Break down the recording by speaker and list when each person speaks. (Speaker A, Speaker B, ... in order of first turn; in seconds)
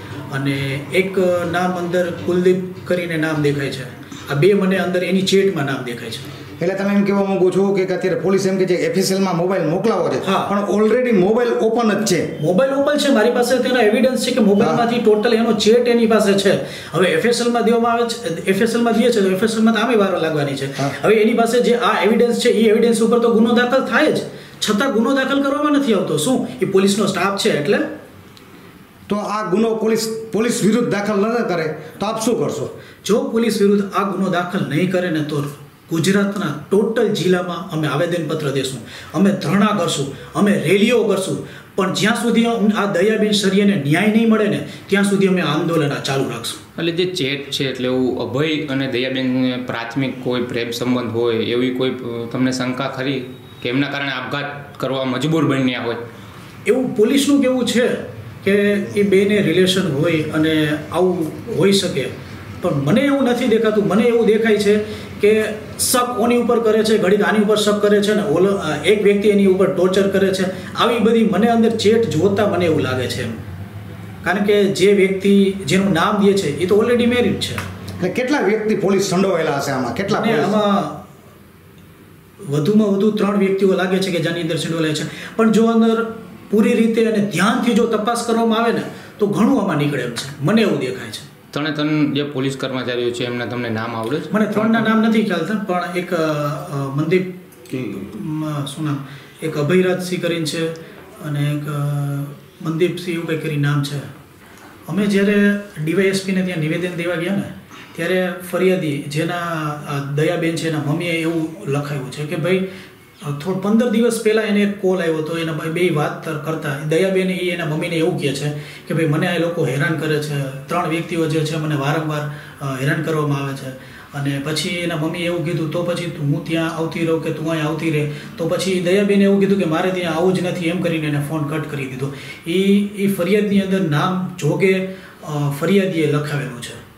Speaker A: 0.3-6.3, 10.2-10.5, 12.4-27.9, 33.0-46.6, 56.7-73.4, 74.2-77.6, 80.1-81.0, 82.4-91.3, 94.3-104.1, 104.9-112.7, 113.2-136.8
Speaker B: 6.6-12.3, 29.1-32.7, 78.0-80.6
Speaker C: 46.8-56.0, 91.5-94.9